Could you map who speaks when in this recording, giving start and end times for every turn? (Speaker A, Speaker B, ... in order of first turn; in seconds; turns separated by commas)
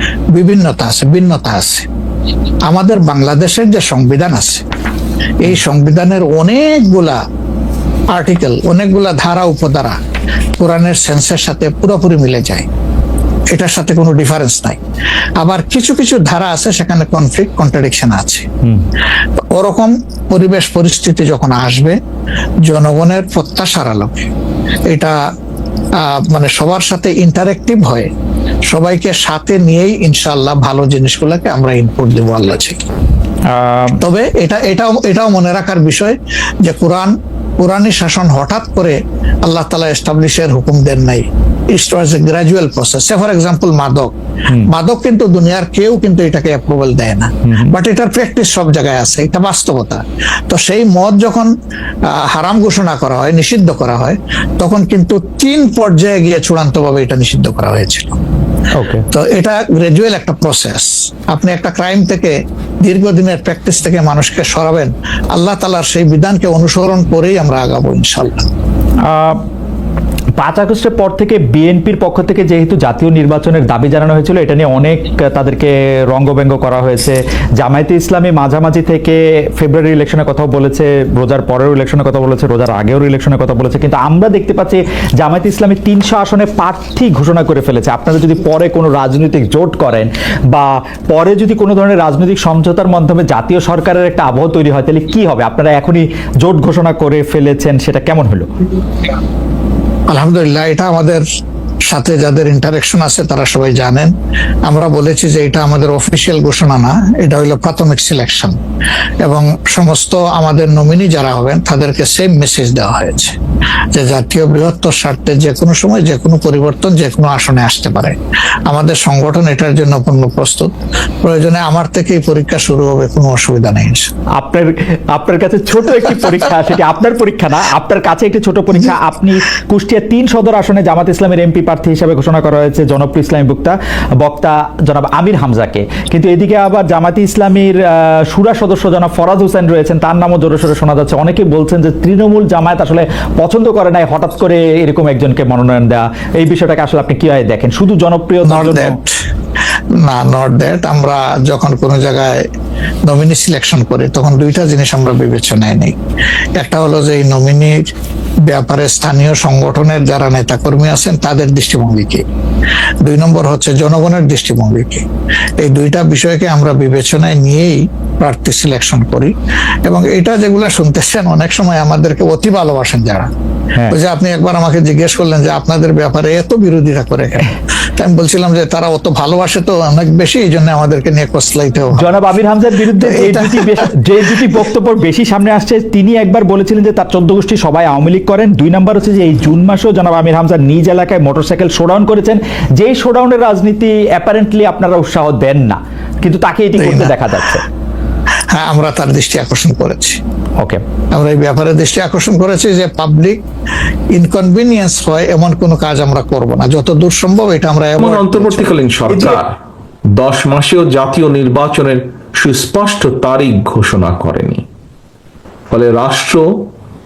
Speaker A: 0.3-1.9, Speaker A: 2.6-4.6, Speaker A: 5.4-7.2, Speaker A: 8.1-10.0, Speaker A: 10.6-12.7, Speaker A: 13.5-14.8, Speaker A: 15.4-18.4, Speaker A: 19.5-21.9, Speaker A: 22.7-24.3, Speaker A: 24.9-25.1, Speaker A: 26.0-28.1, Speaker A: 28.7-32.8, Speaker B: 33.5-34.0, Speaker A: 34.0-44.1, Speaker A: 44.7-51.5, Speaker B: 47.4-47.7, Speaker A: 52.1-58.2, Speaker B: 58.8-59.0, Speaker A: 59.1-68.4, Speaker B: 69.0-69.4, Speaker B: 70.4-98.5, Speaker A: 100.1-101.2, Speaker A: 101.9-104.1, Speaker A: 104.6-108.6, Speaker A: 109.2-113.3, Speaker A: 113.9-120.7, Speaker A: 121.2-124.1, Speaker B: 124.4-148.9, Speaker A: 148.4-149.1, Speaker A: 150.0-152.4, Speaker A: 153.1-156.0, Speaker A: 156.6-157.8, Speaker A: 158.5-162.2, Speaker A: 163.0-165.0, Speaker A: 165.6-169.3, Speaker A: 169.8-173.3, Speaker A: 173.9-182.1, Speaker B: 181.9-197.6, Speaker A: 183.0-183.9, Speaker A: 196.8-197.2, Speaker A: 198.5-200.2, Speaker A: 201.1-203.4, Speaker A: 204.1-208.7, Speaker C: 208.0-209.5, Speaker B: 209.1-209.4, Speaker C: 210.2-214.6, Speaker C: 215.7-216.4